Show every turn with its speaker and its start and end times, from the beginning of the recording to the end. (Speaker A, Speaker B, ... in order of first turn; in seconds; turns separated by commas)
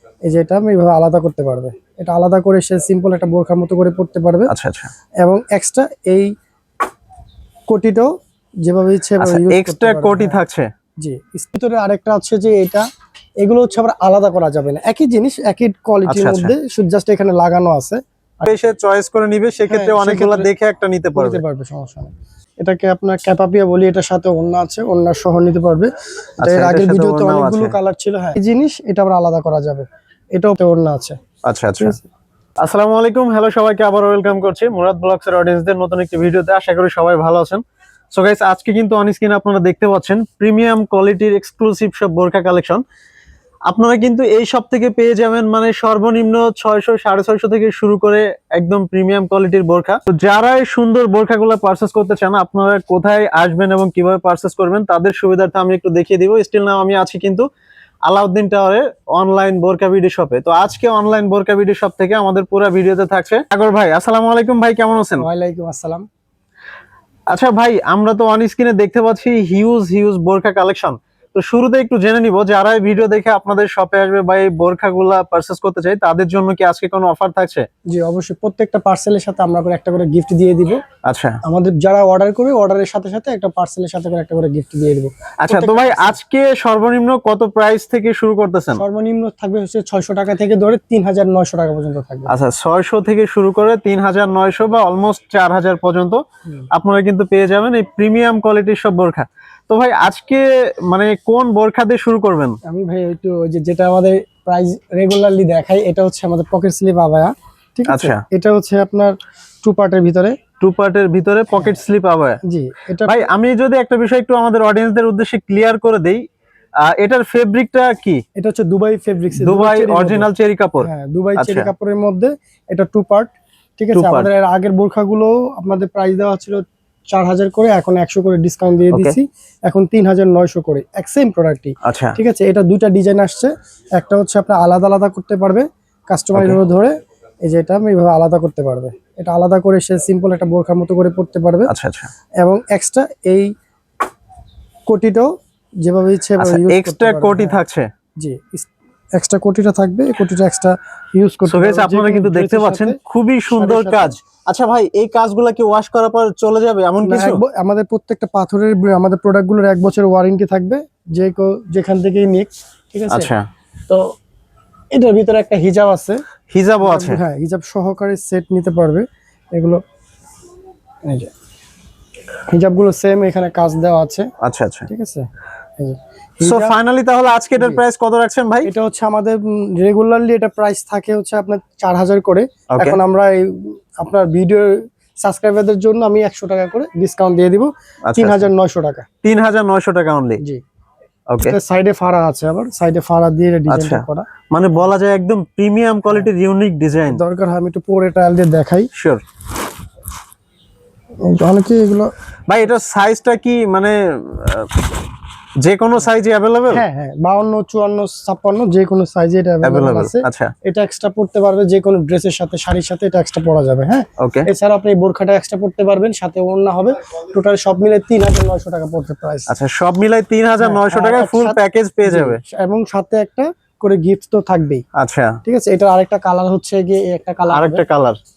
Speaker A: 0.3-4.5, Speaker B: 4.5-4.9, Speaker A: 5.2-6.3, Speaker A: 7.7-8.1, Speaker A: 8.6-10.4, Speaker B: 9.2-10.7, Speaker A: 11.0-12.8, Speaker A: 13.4-18.5, Speaker B: 16.1-16.5, Speaker B: 18.4-21.4, Speaker A: 19.7-20.5, Speaker A: 21.1-31.2, Speaker B: 26.4-27.8, Speaker B: 31.4-32.0, Speaker A: 31.8-32.1, Speaker B: 32.6-37.6, Speaker B: 38.1-42.8, Speaker B: 43.7-57.5, Speaker B: 58.1-65.2, Speaker A: 65.2-66.0, Speaker B: 67.3-77.7, Speaker A: 77.9-80.8, Speaker B: 81.0-81.4, Speaker A: 81.4-86.2, Speaker B: 85.4-88.8, Speaker A: 88.8-92.3, Speaker B: 92.3-96.2, Speaker B: 96.7-102.6, Speaker A: 102.7-110.3, Speaker B: 107.9-108.2, Speaker B: 110.6-112.4, Speaker A: 112.5-113.3, Speaker B: 113.0-116.2, Speaker B: 116.8-118.2, Speaker A: 118.4-120.3, Speaker B: 119.4-121.7, Speaker A: 120.8-136.9, Speaker B: 123.9-124.3, Speaker B: 128.9-129.2, Speaker B: 131.8-132.2, Speaker B: 136.3-136.6, Speaker A: 137.4-141.7, Speaker B: 141.7-142.1, Speaker A: 142.4-143.5, Speaker A: 144.9-145.3, Speaker A: 145.8-147.6, Speaker B: 146.4-147.9, Speaker A: 148.2-153.0, Speaker B: 151.4-157.4, Speaker A: 153.5-154.2, Speaker A: 157.0-163.3, Speaker B: 163.1-163.4, Speaker A: 164.9-166.2, Speaker B: 166.5-167.2, Speaker A: 166.8-169.8, Speaker A: 171.1-171.3, Speaker A: 172.5-174.3, Speaker B: 174.4-174.9, Speaker A: 174.9-175.3, Speaker A: 175.8-176.7, Speaker B: 176.4-178.7, Speaker A: 178.6-189.1, Speaker B: 188.1-188.5, Speaker B: 189.2-190.4, Speaker B: 191.3-191.6, Speaker A: 191.4-194.3, Speaker B: 193.7-197.2, Speaker A: 197.1-198.9, Speaker B: 198.9-199.2, Speaker A: 201.2-202.1, Speaker B: 202.5-204.9, Speaker B: 205.6-206.8, Speaker A: 206.7-219.5, Speaker B: 209.6-210.5, Speaker B: 214.2-214.5, Speaker B: 219.5-222.4, Speaker A: 220.6-224.8, Speaker B: 224.9-225.4, Speaker A: 225.4-227.8, Speaker B: 227.5-228.2